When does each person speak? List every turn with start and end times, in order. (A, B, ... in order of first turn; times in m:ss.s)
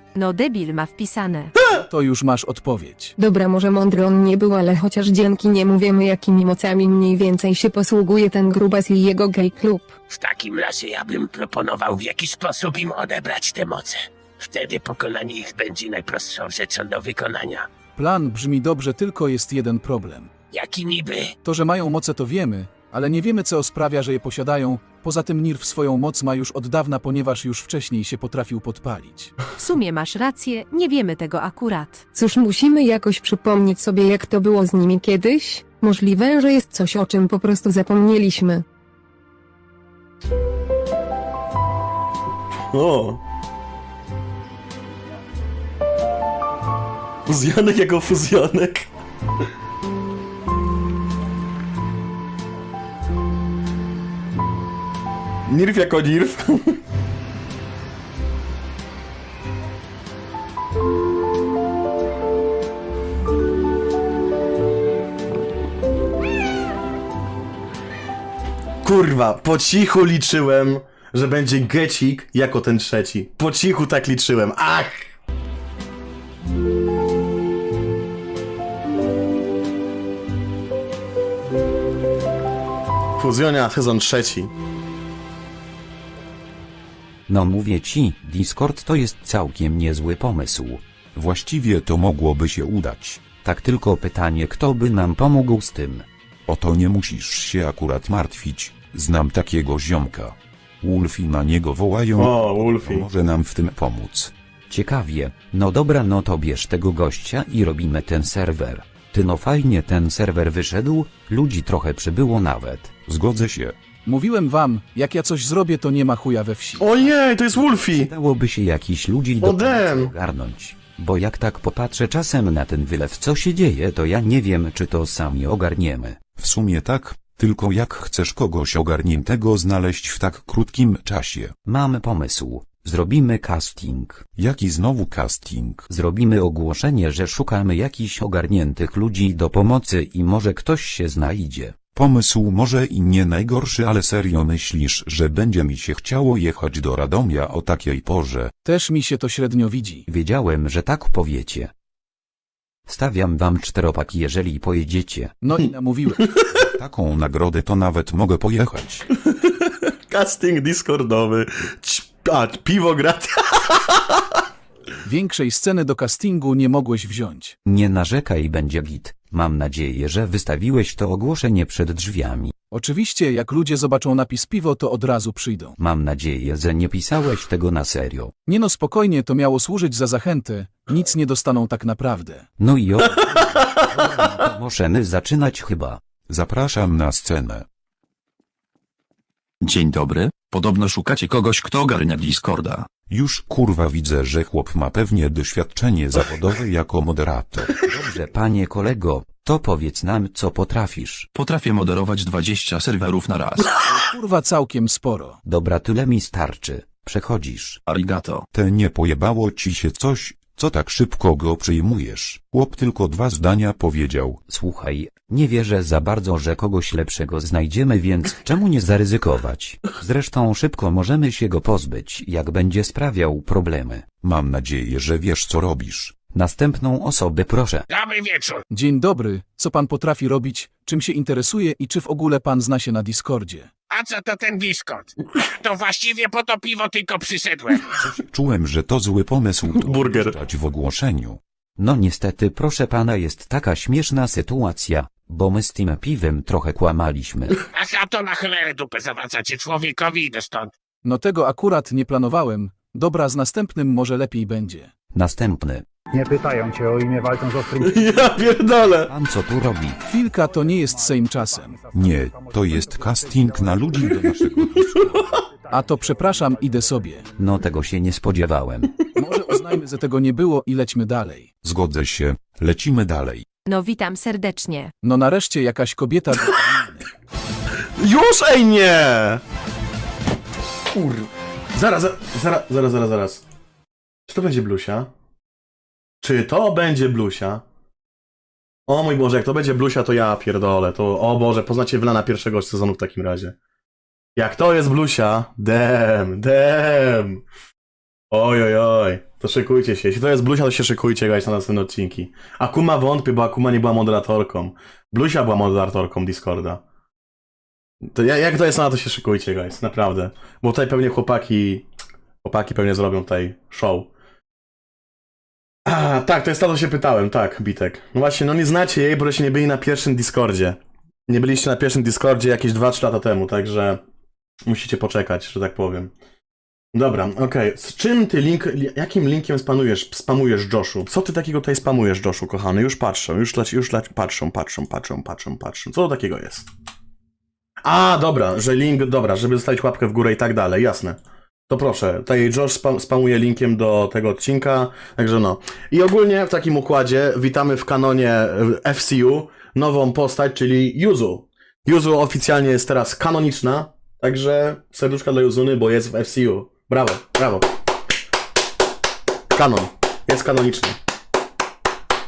0:00.1-0:01.5 A
0:01.6-0:01.8 B
0:01.7-0:03.1 C
0:03.2-0:09.9 D
0:10.1-0:17.7 E
0:18.0-0:20.3 C
0:20.5-0:21.3 E
0:21.4-0:29.3 C
0:29.6-0:32.0 A
0:32.1-0:38.6 D
0:42.7-0:43.2 B
0:47.3-0:48.9 B
0:55.4-0:56.8 B
1:08.8-1:15.1 B
1:23.2-1:24.5 B
1:27.3-1:30.8 F
1:31.1-1:33.2 G
1:33.4-1:36.0 F
1:36.5-1:44.3 G
1:42.2-1:43.1 B
1:44.7-1:53.0 F
1:53.1-1:53.7 G
1:54.0-1:56.9 C
1:56.8-1:58.1 B
1:57.9-2:06.2 F
1:59.4-2:00.1 B
2:06.4-2:11.6 G
2:11.6-2:14.3 F
2:14.4-2:15.9 G
2:15.9-2:21.8 F
2:21.9-2:28.5 G
2:28.6-2:30.0 C
2:30.1-2:31.7 F
2:32.9-2:35.3 F
2:35.4-2:36.2 C
2:36.5-2:39.1 G
2:39.3-2:44.2 B
2:45.0-2:47.5 C
2:47.7-2:52.5 F
2:52.7-2:55.7 C
2:55.8-2:58.3 F
2:58.5-3:02.4 C
3:02.6-3:06.0 F
3:06.3-3:07.6 G
3:09.6-3:12.9 H
3:13.1-3:17.8 G
3:17.6-3:21.3 F
3:21.3-3:23.8 H
3:23.8-3:25.4 C
3:25.4-3:27.8 F
3:27.9-3:28.4 H
3:28.5-3:34.4 G
3:34.5-3:44.0 F
3:44.2-3:46.1 G
3:46.3-3:47.8 F
3:47.9-3:48.6 E
3:48.7-3:53.7 C
3:53.9-3:58.0 E
3:58.0-4:01.4 G
3:59.8-4:00.3 B
4:01.8-4:07.6 F
4:07.7-4:10.7 E
4:11.0-4:14.9 C
4:15.1-4:15.8 F
4:16.2-4:18.1 I
4:17.8-4:19.1 B
4:19.1-4:20.0 F
4:20.0-4:21.9 C
4:21.9-4:25.3 G
4:25.7-4:27.2 C
4:27.4-4:29.0 F
4:29.2-4:31.5 C
4:31.6-4:33.4 G
4:33.7-4:34.9 A
4:35.0-4:37.1 C
4:38.0-4:39.4 B
4:40.9-4:43.4 B
4:44.3-4:45.1 B
4:46.2-4:47.6 B
4:48.9-4:53.6 B
4:54.4-4:57.4 B
4:58.3-5:06.8 B
5:08.1-5:11.9 B
5:12.4-5:14.1 B
5:15.8-5:24.0 B
5:24.6-5:26.1 B
5:26.9-5:36.7 B
5:37.8-5:57.7 B
5:59.5-6:01.0 B